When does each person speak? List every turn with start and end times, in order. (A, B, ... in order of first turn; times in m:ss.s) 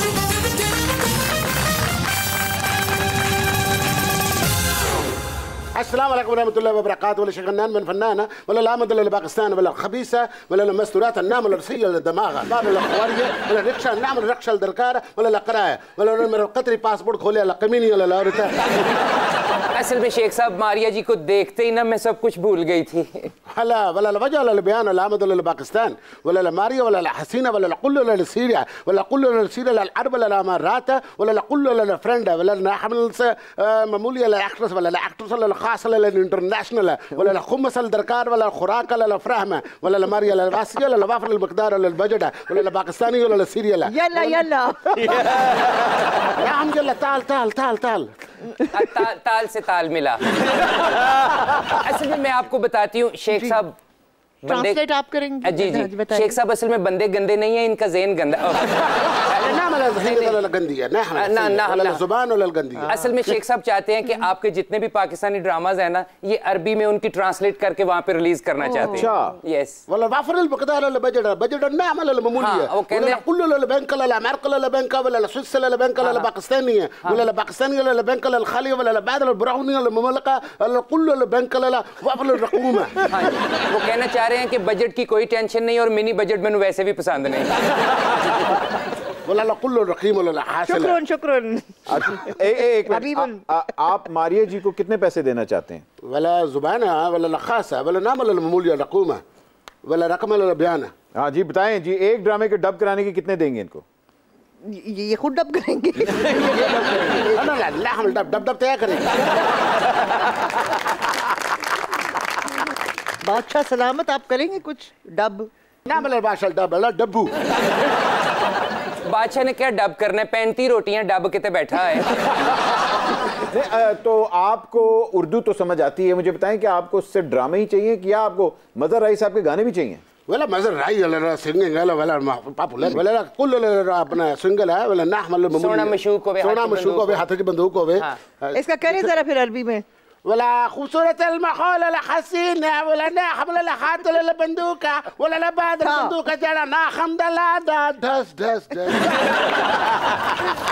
0:05.7-0:18.9 A
0:19.7-0:23.3 B
0:23.5-0:44.4 A
0:43.9-0:45.3 C
0:46.4-0:48.1 A
0:48.6-0:50.2 B
0:51.6-0:53.8 B
0:53.3-0:53.6 C
0:54.4-0:54.8 B
0:54.5-0:56.3 C
0:55.4-1:00.3 B
0:59.3-1:02.9 A
1:01.1-1:02.0 B
1:02.8-1:03.0 C
1:02.9-1:09.8 B
1:08.8-1:09.4 D
1:09.9-1:23.1 A
1:12.4-1:13.2 B
1:16.0-1:16.3 B
1:23.1-1:27.5 B
1:29.2-1:31.0 A
1:30.6-1:33.4 C
1:31.9-1:35.8 D
1:36.0-1:39.2 A
1:39.8-1:40.9 A
1:41.2-1:43.8 D
1:44.6-1:46.7 C
1:46.0-1:47.3 D
1:46.6-1:49.2 A
1:53.2-1:55.5 C
1:55.9-1:57.3 A
1:59.0-2:02.1 B
2:03.4-2:10.0 D
2:10.3-2:19.1 A
2:15.5-2:17.3 B
2:18.5-2:19.8 C
2:20.2-2:29.4 A
2:25.8-2:26.1 C